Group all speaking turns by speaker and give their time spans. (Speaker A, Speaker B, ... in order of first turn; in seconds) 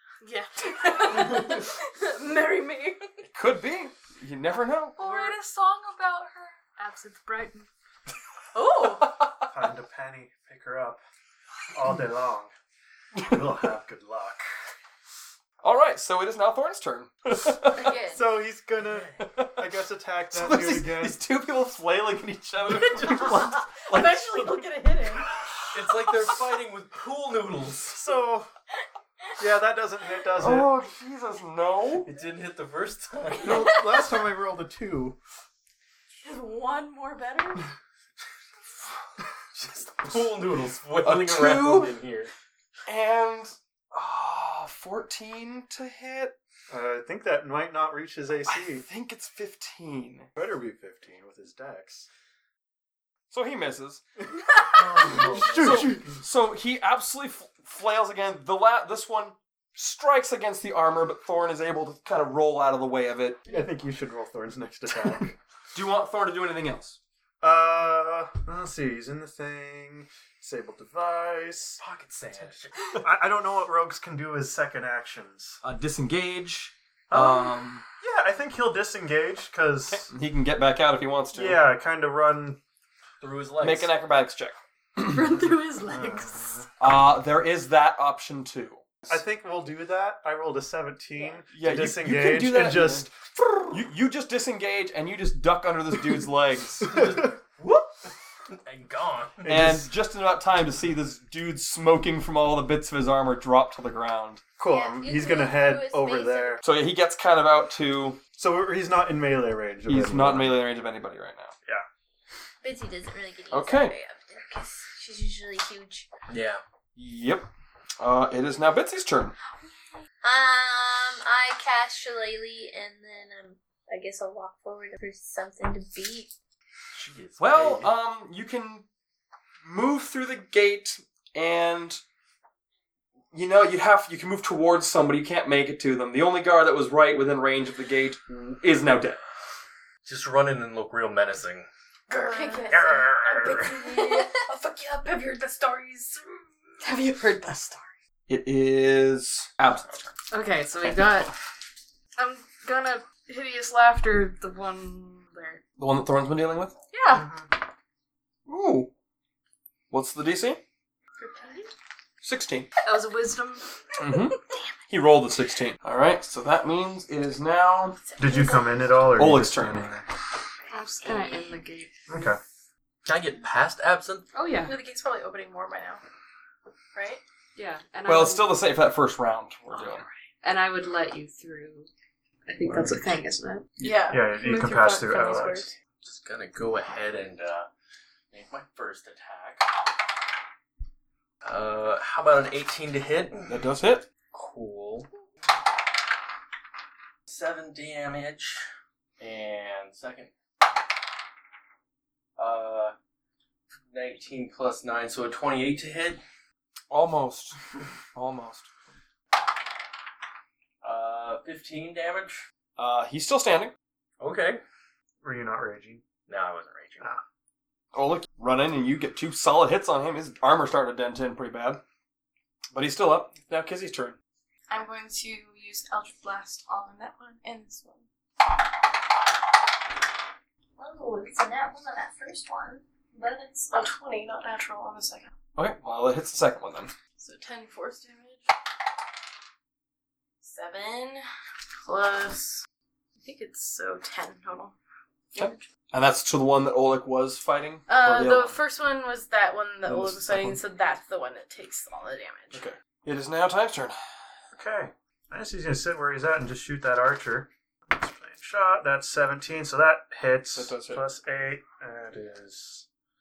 Speaker A: 0.2-1.3, 5.0-7.7, 85.1-86.7, 142.1-142.8, 143.7-146.2, 146.8-147.9, 150.3-151.3, 152.2-155.6, 156.9-157.3, 162.8-163.7, 170.7-172.2, 174.3-174.8, 177.6-178.6, 180.4-181.9, 182.5-183.7
Speaker B: 0.6-3.2, 5.0-5.4, 6.0-6.5, 8.5-9.1, 22.7-25.3, 36.2-37.7, 142.1-144.5, 145.4-145.8, 161.2-161.7, 174.7-176.0, 176.9-177.2, 183.8-185.7, 224.7-228.1, 230.8-235.3, 237.2-238.4, 240.4-241.2, 241.8-242.7, 243.2-244.7, 245.3-245.6, 247.9-252.6
Speaker C: 3.3-5.0, 9.0-9.5, 15.6-17.9, 19.2-19.6, 20.3-24.6, 25.7-26.2, 30.4-32.1, 41.0-42.0, 42.9-46.4, 48.5-50.3, 53.3-54.0, 55.1-63.4, 65.7-67.0, 75.6-77.8, 79.9-81.6, 83.6-85.2, 86.8-89.2, 91.5-93.1, 93.7-97.2, 99.5-104.4, 106.6-108.2, 109.9-111.5, 113.5-114.0, 117.0-117.5, 118.0-119.3, 127.4-128.9, 129.7-132.0, 133.3-139.2, 148.3-150.1, 155.8-156.8, 158.5-158.9, 159.9-160.6, 162.2-162.7, 164.0-168.0, 169.2-169.9, 178.1-180.1, 193.5-194.1, 206.9-207.6, 208.1-208.7, 212.8-213.7, 217.9-221.8, 222.7-224.2, 235.6-236.9, 245.4-248.6, 249.8-250.6, 252.5-254.0, 260.5-261.0
Speaker D: 9.5-11.0, 11.7-12.5, 13.2-14.5, 17.9-21.2, 27.9-28.5, 29.4-30.7, 33.4-35.2, 46.7-48.9, 50.4-52.1, 54.3-56.2, 63.5-65.4, 67.4-71.8, 73.0-75.6, 77.1-80.1, 81.3-82.6, 85.9-86.7, 89.1-93.8, 99.4-99.9, 104.6-106.6, 108.4-110.6, 157.1-157.5, 168.2-170.1, 172.1-172.4, 184.1-185.7, 215.2-216.1, 254.5-262.9
Speaker E: 17.7-18.2, 104.7-106.6, 112.6-116.1, 120.2-126.3, 168.1-168.9, 171.1-171.5
Speaker F: 18.8-19.2, 25.7-28.0, 32.0-33.8, 39.5-42.3, 54.7-56.0, 71.8-73.0, 83.2-83.9, 96.9-97.9, 98.5-99.5, 116.3-116.6, 126.9-127.9, 140.0-141.7, 142.7-143.9, 173.1-174.3, 185.5-187.7, 188.3-189.7, 191.4-193.7, 194.3-195.1, 197.3-198.7, 199.2-200.3, 202.4-202.9, 203.9-206.2, 210.8-212.4, 214.2-214.6, 216.3-217.1